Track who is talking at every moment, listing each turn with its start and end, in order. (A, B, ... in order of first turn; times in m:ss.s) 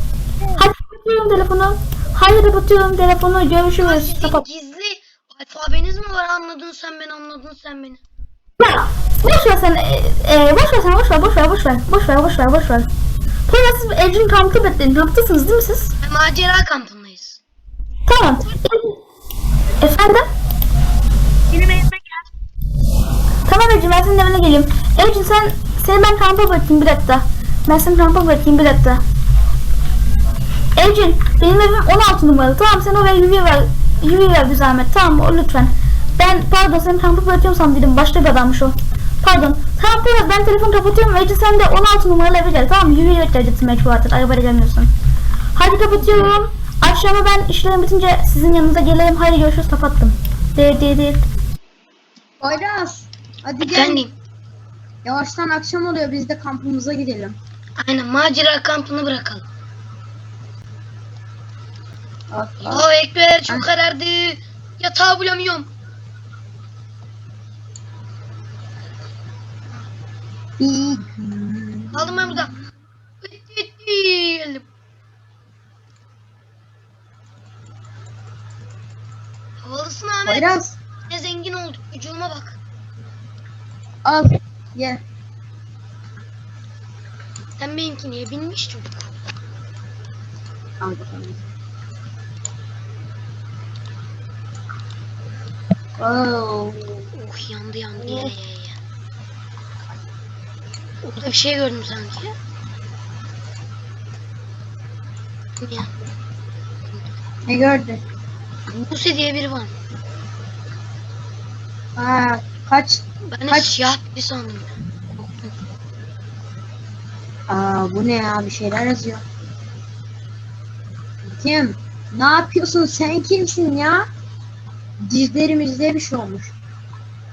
0:00.6-0:04.4 A
0:03.8-0:08.0 B
0:08.6-0:12.9 A
0:13.5-0:15.9 A
0:16.0-0:17.4 B
0:18.1-0:19.0 A
0:19.8-0:20.2 A
0:21.5-0:22.2 B
0:23.4-0:29.0 A
0:30.8-0:44.9 A
0:45.5-0:51.2 A
0:52.4-0:54.0 C
0:53.6-0:54.1 B
0:55.0-0:57.4 C
0:57.8-0:59.4 B
1:02.3-1:02.9 C
1:02.6-1:05.7 B
1:10.6-1:12.4 C
1:11.9-1:12.5 B
1:13.2-1:14.6 B
1:19.6-1:22.6 B
1:20.2-1:20.8 C
1:24.0-1:25.0 C
1:27.6-1:29.1 B
1:30.8-1:31.5 C
1:36.0-1:37.1 C
1:37.1-1:38.8 B
1:38.0-1:38.3 C
1:41.0-1:42.3 B
1:45.6-1:45.9 B
1:47.5-1:48.0 C
1:48.7-1:49.7 B
1:52.0-1:53.8 C
1:53.3-1:55.5 B
1:57.5-1:59.2 C
2:01.2-2:04.1 C
2:05.0-2:06.5 C